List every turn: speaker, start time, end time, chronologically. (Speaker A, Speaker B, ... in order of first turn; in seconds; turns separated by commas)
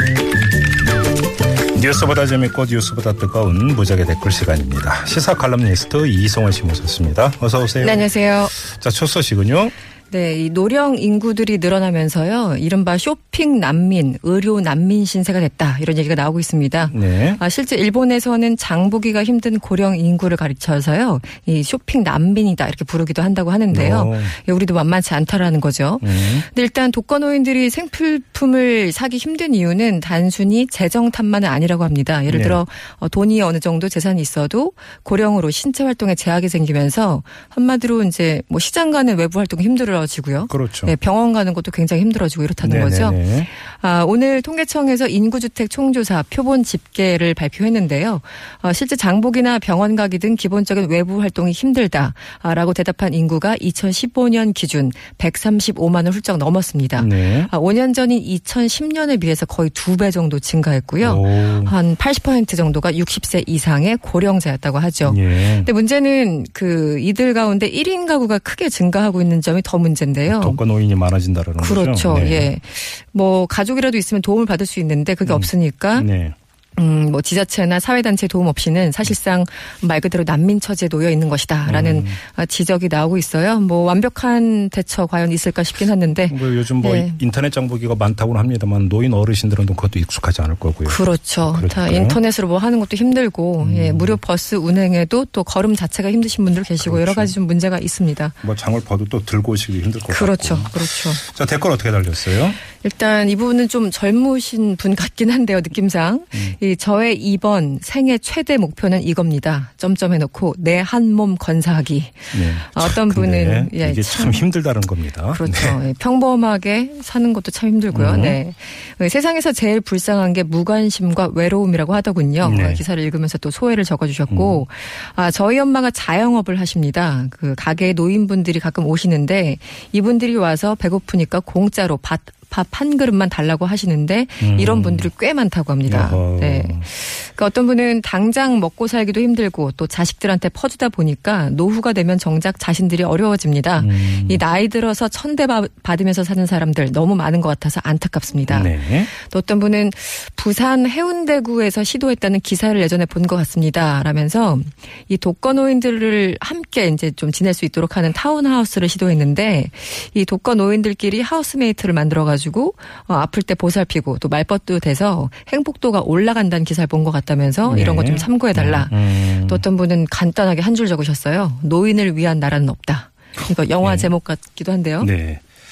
Speaker A: 1.8-9.7, Speaker B: 7.8-8.6, Speaker B: 10.1-70.6, Speaker A: 16.9-17.4, Speaker A: 23.7-24.4, Speaker A: 26.0-26.5, Speaker A: 32.3-32.6, Speaker A: 40.5-40.9, Speaker A: 42.6-43.5, Speaker A: 57.0-57.5, Speaker A: 61.0-61.8, Speaker A: 65.0-65.7, Speaker A: 70.3-72.5, Speaker B: 71.6-76.1, Speaker A: 75.2-76.3, Speaker B: 76.8-87.2, Speaker A: 81.7-82.2, Speaker A: 86.3-92.2, Speaker B: 90.8-98.4, Speaker A: 93.6-94.2, Speaker A: 96.8-97.3, Speaker A: 98.4-102.6, Speaker B: 100.1-101.2, Speaker B: 102.8-114.5, Speaker A: 112.3-115.8, Speaker B: 115.3-175.1, Speaker A: 117.9-118.4, Speaker A: 122.4-122.8, Speaker A: 124.3-124.6, Speaker A: 134.4-135.1, Speaker A: 135.9-136.9, Speaker A: 143.8-144.4, Speaker A: 148.5-149.1, Speaker A: 167.7-169.6, Speaker A: 173.8-174.1, Speaker A: 175.0-175.4